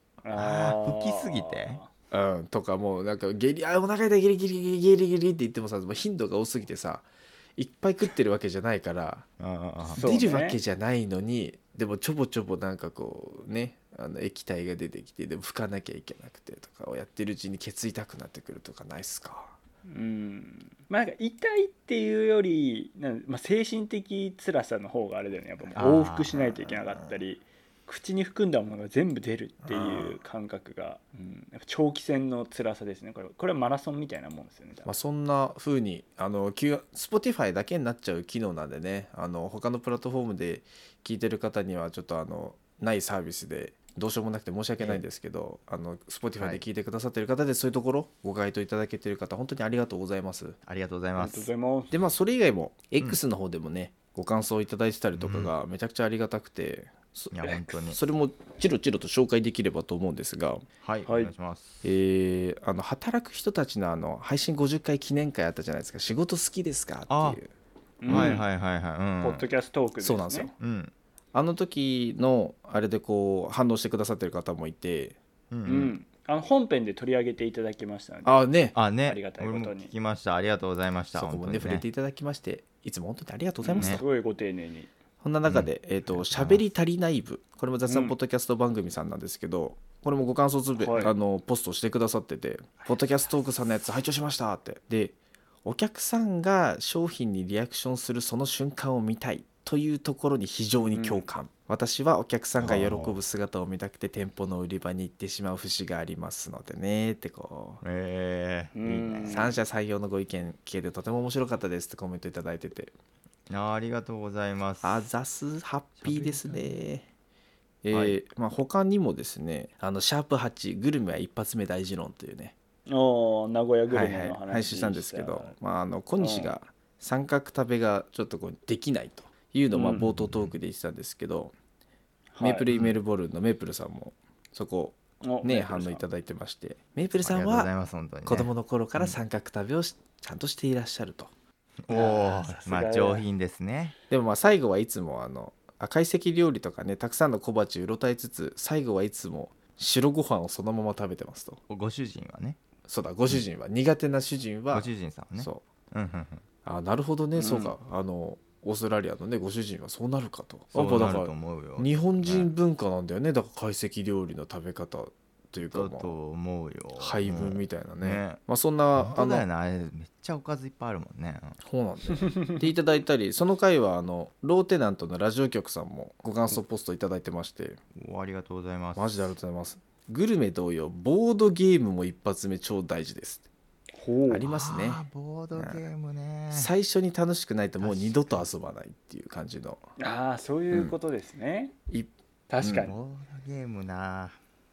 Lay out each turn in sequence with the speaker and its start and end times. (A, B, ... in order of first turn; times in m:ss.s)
0:00.2-0:01.9 A
0:00.3-0:01.8 B
0:02.1-0:09.2 C
0:09.4-0:10.0 B
0:09.9-0:10.6 A
0:10.0-0:19.5 C
0:19.8-0:34.9 A
0:25.8-0:26.4 B
0:26.4-0:27.1 C
0:29.6-0:30.2 C
0:34.8-0:50.6 C
0:46.4-0:46.6 B
0:50.7-0:51.5 B
0:51.2-0:52.0 A
0:51.9-1:00.6 C
0:55.1-0:55.5 B
0:57.3-0:58.0 B
0:57.5-0:57.7 A
1:00.8-1:01.8 B
1:01.0-1:01.3 A
1:01.8-1:07.5 C
1:07.1-1:07.4 B
1:08.0-1:08.4 A
1:08.1-1:08.4 C
1:08.1-1:09.5 B
1:09.2-1:10.5 A
1:10.0-1:10.5 C
1:10.6-1:10.9 B
1:11.3-1:15.2 C
1:15.5-1:15.9 B
1:15.6-1:18.4 A
1:18.2-1:18.8 C
1:18.7-1:21.8 B
1:19.0-1:19.9 A
1:21.1-1:24.0 C
1:23.6-1:24.9 A
1:25.2-1:47.8 C
1:25.5-1:26.6 B
1:27.9-1:28.1 A
1:30.8-1:31.1 A
1:40.9-1:41.3 A
1:42.6-1:43.2 B
1:47.8-1:49.4 B
1:48.7-1:49.6 A
1:49.3-1:52.9 C
1:53.5-1:55.0 B
1:54.8-1:57.0 C
1:56.0-1:56.7 B
1:57.8-2:02.5 C
1:57.9-1:58.2 B
2:02.9-2:05.5 A
2:03.9-2:11.5 C
2:06.2-2:06.5 A
2:09.7-2:10.1 A
2:10.2-2:10.5 B
2:12.3-2:12.6 A
2:12.4-2:17.7 C
2:15.2-2:16.0 A
2:17.2-2:19.2 B
2:18.2-2:21.3 C
2:21.8-2:23.9 B
2:21.9-2:23.2 A
2:24.1-2:31.6 C
2:31.7-2:32.6 B
2:32.9-2:35.6 C
2:34.7-2:36.4 B
2:36.6-2:46.1 C
2:37.4-2:37.7 A
2:40.7-2:42.5 B
2:45.7-2:48.4 B
2:47.0-2:49.4 C
2:49.0-2:51.6 B
2:51.6-2:57.8 C
2:57.9-2:59.3 B
2:59.0-3:03.4 C
3:04.0-3:04.4 A
3:04.3-3:05.0 C
3:04.4-3:06.7 B
3:05.6-3:05.8 C
3:06.5-3:09.8 C
3:07.8-3:08.4 B
3:10.0-3:11.7 A
3:12.5-3:12.9 A
3:12.6-3:12.9 C
3:12.6-3:14.4 B